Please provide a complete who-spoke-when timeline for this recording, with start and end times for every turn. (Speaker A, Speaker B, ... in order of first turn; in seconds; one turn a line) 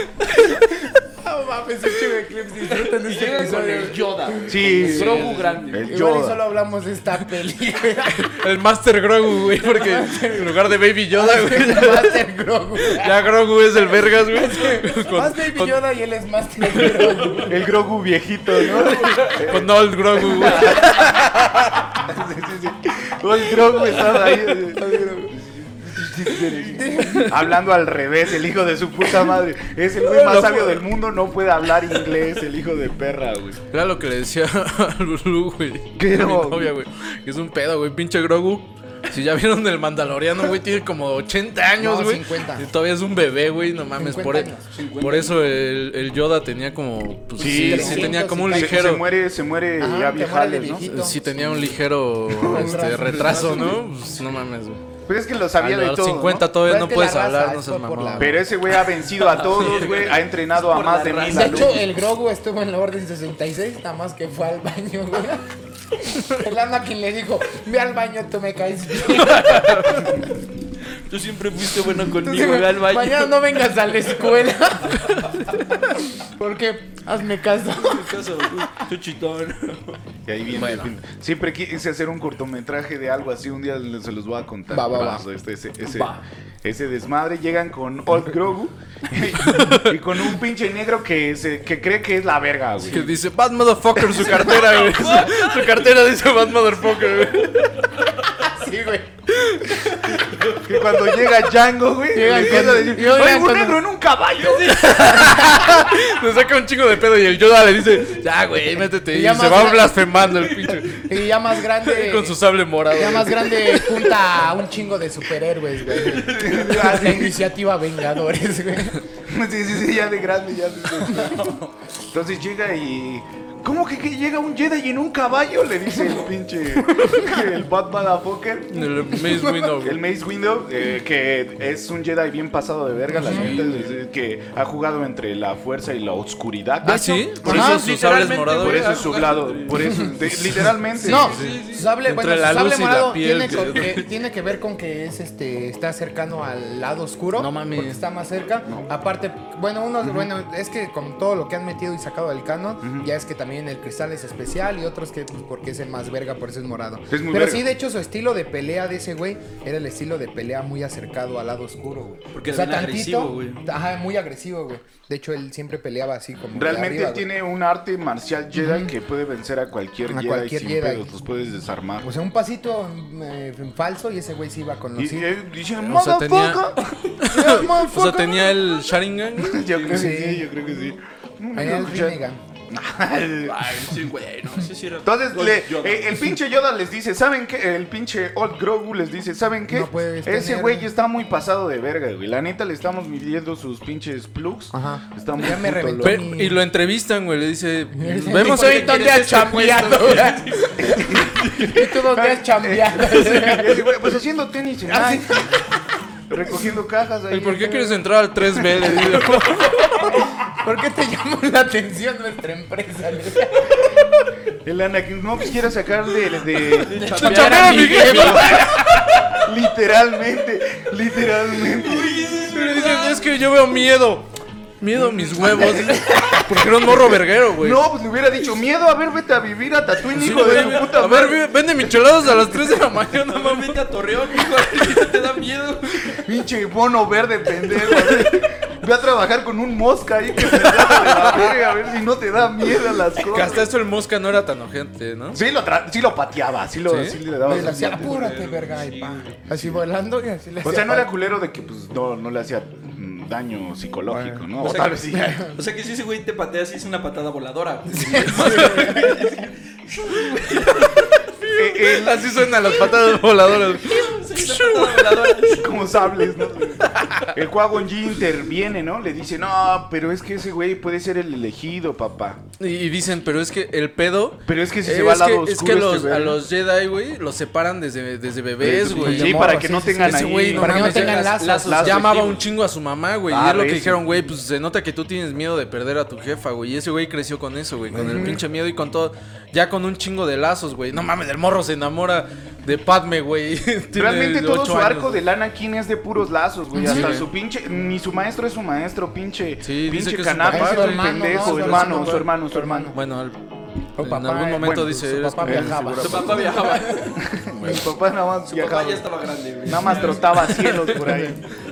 Speaker A: 0.6-8.3
Speaker B: 2.7-5.9
Speaker C: 4.5-6.4
Speaker D: 4.8-5.5
Speaker D: 8.1-12.2
Speaker A: 9.5-13.2
Speaker D: 12.8-15.8
Speaker A: 14.3-17.6
Speaker C: 17.4-21.3
Speaker D: 18.7-21.9
Speaker C: 21.9-33.6
Speaker A: 24.8-25.3
Speaker A: 26.7-27.4
Speaker D: 30.0-30.8
Speaker D: 33.7-49.0
Speaker C: 36.0-36.8
Speaker A: 41.8-42.7
Speaker A: 44.0-44.7
Speaker B: 44.7-45.4
Speaker C: 47.4-50.9
Speaker A: 47.4-48.9
Speaker A: 49.8-51.8
Speaker D: 50.8-54.8
Speaker C: 52.3-52.9
Speaker A: 52.3-53.8
Speaker B: 53.3-53.6
Speaker C: 55.1-56.5
Speaker D: 55.6-58.4
Speaker A: 56.5-58.4
Speaker C: 58.2-61.8
Speaker B: 59.1-61.8
Speaker A: 61.3-65.5
Speaker A: 66.0-70.2
Speaker D: 69.3-70.0
Speaker B: 71.1-73.3
Speaker A: 71.8-78.8
Speaker B: 77.8-80.0
Speaker C: 80.2-93.1
Speaker D: 80.5-80.9
Speaker A: 84.7-85.2
Speaker B: 85.9-86.2
Speaker D: 89.4-89.9
Speaker D: 92.8-97.7
Speaker B: 94.1-95.8
Speaker A: 98.5-99.1
Speaker D: 99.3-100.0
Speaker B: 100.1-101.2
Speaker C: 100.6-105.3
Speaker A: 102.1-103.8
Speaker B: 104.4-105.2
Speaker D: 104.7-111.2
Speaker A: 109.0-110.0
Speaker B: 110.4-110.8
Speaker A: 110.9-119.0
Speaker D: 111.8-114.2
Speaker B: 115.8-117.3
Speaker C: 116.3-117.4
Speaker C: 119.2-129.2
Speaker A: 121.1-121.4
Speaker D: 128.7-130.0
Speaker A: 129.2-129.7
Speaker C: 129.8-137.8
Speaker A: 133.1-133.5
Speaker D: 133.2-133.9
Speaker D: 136.8-139.0
Speaker A: 136.8-137.8
Speaker B: 137.4-140.1
Speaker C: 138.6-141.4
Speaker A: 139.8-140.2
Speaker D: 140.4-144.1
Speaker A: 141.0-167.2
Speaker D: 147.3-148.0
Speaker C: 150.0-150.3
Speaker C: 152.8-153.1
Speaker C: 157.1-157.7
Speaker B: 162.3-163.6
Speaker C: 166.5-172.1
Speaker A: 168.5-168.9
Speaker A: 170.1-171.1
Speaker A: 172.0-175.3
Speaker C: 174.9-176.8
Speaker D: 175.8-179.8
Speaker A: 177.2-178.6
Speaker C: 179.4-183.7
Speaker A: 179.8-180.5
Speaker A: 181.5-182.4
Speaker B: 183.4-186.3
Speaker C: 185.0-196.2
Speaker A: 189.7-190.9
Speaker A: 194.7-196.6
Speaker D: 196.0-199.5
Speaker A: 197.9-204.0
Speaker B: 198.3-201.9
Speaker C: 200.8-201.4
Speaker C: 202.1-205.5
Speaker A: 204.9-205.6
Speaker C: 206.3-207.9
Speaker D: 207.3-209.9
Speaker A: 207.7-208.0
Speaker A: 208.8-213.9
Speaker C: 214.6-222.3
Speaker B: 216.7-219.5
Speaker A: 216.9-219.1
Speaker D: 217.1-218.7
Speaker B: 221.6-223.4
Speaker D: 222.5-227.8
Speaker C: 224.9-231.5
Speaker A: 225.6-226.3
Speaker D: 230.1-233.8
Speaker B: 230.4-230.9
Speaker B: 233.0-236.3
Speaker C: 236.2-243.7
Speaker D: 240.6-241.5
Speaker D: 243.2-245.4
Speaker C: 245.3-248.2
Speaker D: 246.8-247.2
Speaker A: 247.4-251.1
Speaker B: 247.6-249.4
Speaker C: 250.6-255.5
Speaker A: 254.1-254.5
Speaker B: 254.6-266.4
Speaker A: 255.2-255.6
Speaker A: 257.9-259.4
Speaker D: 258.2-259.1
Speaker C: 261.5-262.4
Speaker D: 261.6-265.5
Speaker C: 265.5-272.4
Speaker D: 266.9-267.3
Speaker D: 272.6-295.2
Speaker C: 274.4-276.4
Speaker C: 278.6-282.2
Speaker A: 279.0-282.0
Speaker B: 280.8-282.4
Speaker C: 283.3-284.0
Speaker C: 287.9-288.4
Speaker A: 288.1-288.4
Speaker C: 293.9-302.9
Speaker A: 296.7-297.2
Speaker D: 296.8-297.3
Speaker D: 299.6-302.3
Speaker A: 300.5-303.0
Speaker D: 302.9-303.4
Speaker A: 304.0-307.8
Speaker D: 304.0-306.3
Speaker C: 304.6-306.4
Speaker B: 306.0-307.2
Speaker C: 307.1-309.1
Speaker B: 308.4-310.7
Speaker C: 309.6-311.4
Speaker D: 309.9-311.3